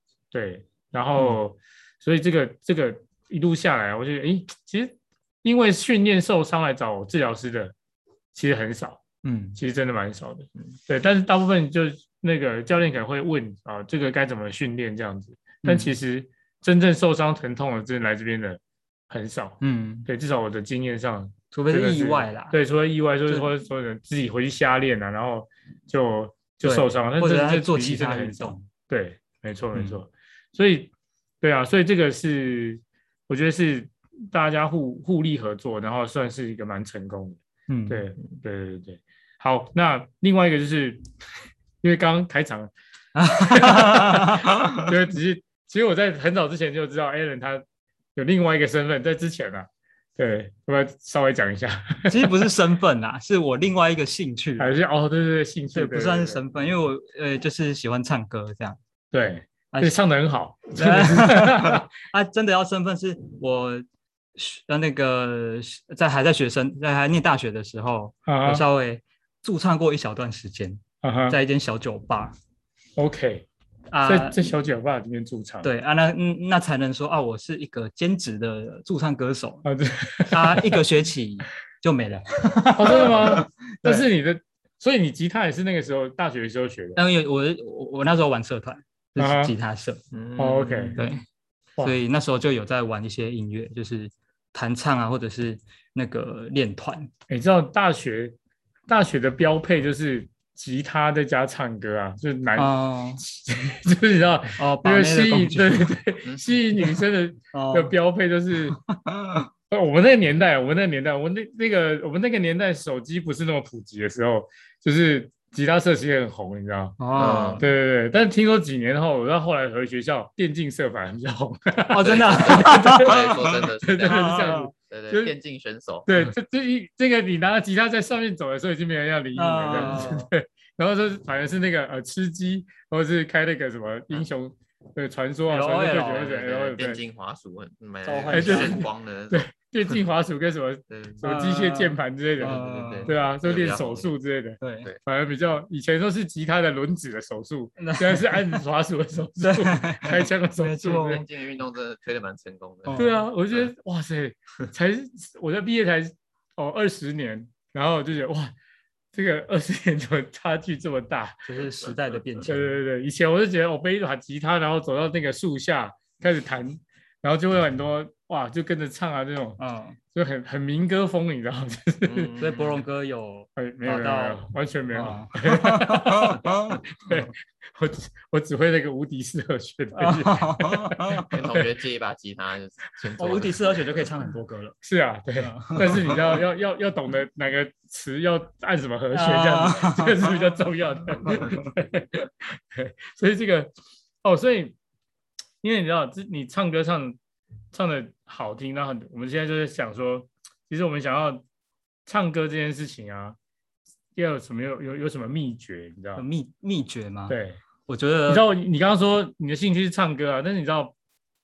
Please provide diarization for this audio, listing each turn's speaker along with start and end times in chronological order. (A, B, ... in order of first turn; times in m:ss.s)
0:00.3-0:07.7 A
0:08.3-0:09.0 A
0:09.2-0:09.6 B
0:09.6-0:41.0 A
0:15.6-0:15.9 B
0:19.6-0:20.1 B
0:21.5-0:22.6 B
0:26.6-0:28.7 B
0:29.8-0:30.0 B
0:37.7-0:38.1 B
0:41.8-0:42.7 A
0:43.2-0:44.8 B
0:43.4-0:47.6 A
0:48.2-0:52.5 A
0:52.1-0:54.7 B
0:54.6-0:56.4 A
0:55.7-0:58.8 B
0:59.1-1:01.8 A
0:59.7-1:00.0 B
1:00.8-1:03.8 B
1:04.4-1:12.4 B
1:08.3-1:08.6 A
1:11.0-1:11.4 A
1:13.0-1:13.5 A
1:13.9-1:14.5 B
1:14.0-1:15.7 A
1:15.6-1:19.7 B
1:19.6-1:20.8 A
1:20.3-1:24.0 B
1:22.8-1:27.0 A
1:27.0-1:30.0 B
1:29.2-1:29.5 A
1:30.1-1:31.1 C
1:30.4-1:31.0 A
1:31.0-1:31.2 B
1:31.8-1:37.1 B
1:37.3-1:38.4 A
1:38.9-1:48.8 A
1:42.6-1:43.2 B
1:44.6-1:46.0 B
1:47.5-1:47.9 B
1:48.9-1:49.4 B
1:49.7-1:57.1 A
1:57.0-1:57.7 B
1:57.2-1:57.6 C
1:57.6-2:03.3 A
2:01.9-2:03.5 B
2:02.0-2:06.1 C
2:03.8-2:05.3 A
2:04.0-2:04.7 B
2:06.1-2:17.0 A
2:09.4-2:10.3 B
2:15.5-2:16.5 B
2:16.2-2:20.0 C
2:18.0-2:18.9 B
2:18.3-2:31.2 A
2:20.9-2:21.2 C
2:21.2-2:23.1 B
2:22.4-2:24.1 C
2:24.6-2:24.9 B
2:27.8-2:28.6 B
2:29.4-2:31.2 B
2:30.8-2:33.7 C
2:32.9-2:33.2 B
2:33.0-2:38.5 A
2:39.1-2:41.5 A
2:41.4-2:42.7 B
2:42.4-2:49.6 A
2:49.6-2:50.0 B
2:50.1-2:52.3 A
2:52.1-2:52.8 C
2:52.4-2:56.8 B
2:53.6-2:56.4 A
2:57.0-3:01.7 A
2:59.9-3:01.3 B
3:01.3-3:04.0 C
3:03.2-3:04.8 B
3:04.8-3:13.7 A
3:05.4-3:06.2 B
3:09.1-3:10.4 B
3:14.2-3:14.8 A
3:15.6-3:17.2 A
3:17.7-3:21.4 A
3:22.1-3:23.4 A
3:24.2-3:26.2 A
3:26.2-3:28.4 B
3:27.3-3:27.6 A
3:28.3-3:30.9 A